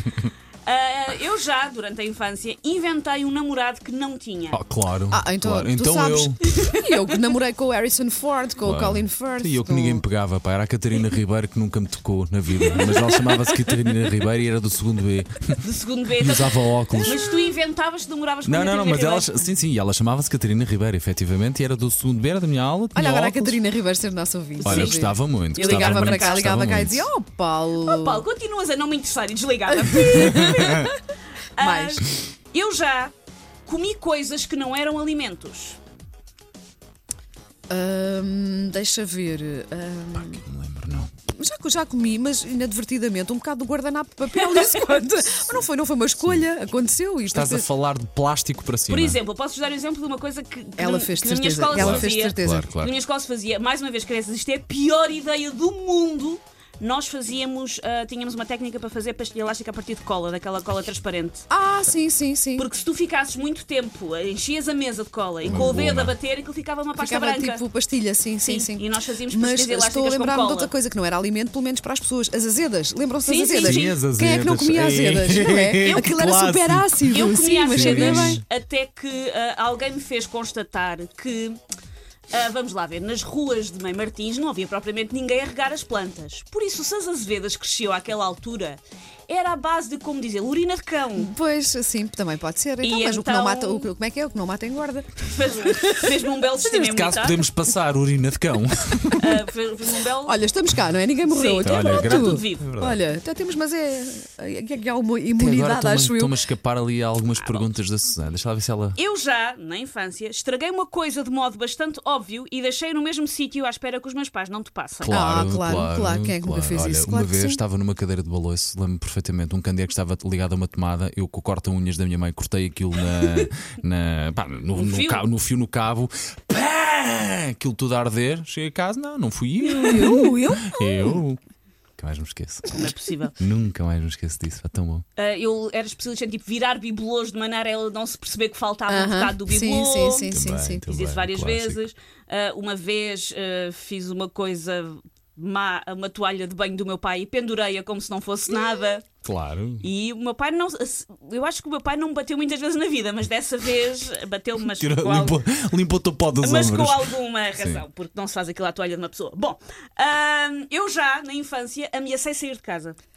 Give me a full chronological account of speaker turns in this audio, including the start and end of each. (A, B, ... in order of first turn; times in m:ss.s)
0:00.6-0:04.6 A
0:04.5-0:06.6 B
0:05.1-0:10.1 C
0:08.6-0:15.6 B
0:12.8-0:13.1 A
0:12.9-0:13.2 C
0:15.6-0:19.3 A
0:16.2-0:17.2 B
0:18.4-0:23.6 B
0:22.9-0:28.2 C
0:24.6-0:25.0 A
0:24.6-0:27.1 B
0:25.6-0:26.5 A
0:27.8-0:31.0 A
0:29.7-0:31.0 C
0:30.4-0:30.9 B
0:31.6-0:33.1 A
0:31.6-0:32.1 C
0:33.7-0:35.8 A
0:37.7-0:40.4 C
0:40.2-0:41.1 B
0:41.4-0:47.7 C
0:47.3-0:49.2 B
0:48.9-1:01.5 A
0:50.8-0:52.7 C
0:51.7-0:52.9 B
1:01.5-1:02.7 C
1:02.6-1:07.6 A
1:05.4-1:06.2 B
1:05.5-1:05.7 C
1:07.0-1:18.4 C
1:08.4-1:10.7 A
1:13.2-1:14.0 A
1:13.5-1:18.4 B
1:17.1-1:21.6 A
1:22.3-1:31.3 A
1:31.2-1:36.2 C
1:32.8-1:33.9 A
1:35.2-1:37.4 A
1:36.6-1:39.4 B
1:39.2-1:40.4 A
1:40.2-1:46.4 C
1:41.3-1:42.7 A
1:41.6-1:43.0 B
1:45.4-1:49.0 B
1:47.4-1:47.7 A
1:49.0-1:55.2 A
1:55.0-2:11.4 B
1:55.1-1:57.6 C
2:04.8-2:05.2 A
2:09.8-2:11.2 C
2:12.0-2:12.8 B
2:12.7-2:13.4 A
2:13.4-2:15.0 B
2:15.2-2:20.3 A
2:18.9-2:20.9 C
2:20.3-2:21.8 B
2:20.8-2:29.1 A
2:29.2-2:29.9 B
2:29.8-2:35.4 A
2:34.7-2:37.8 B
2:36.4-2:43.0 A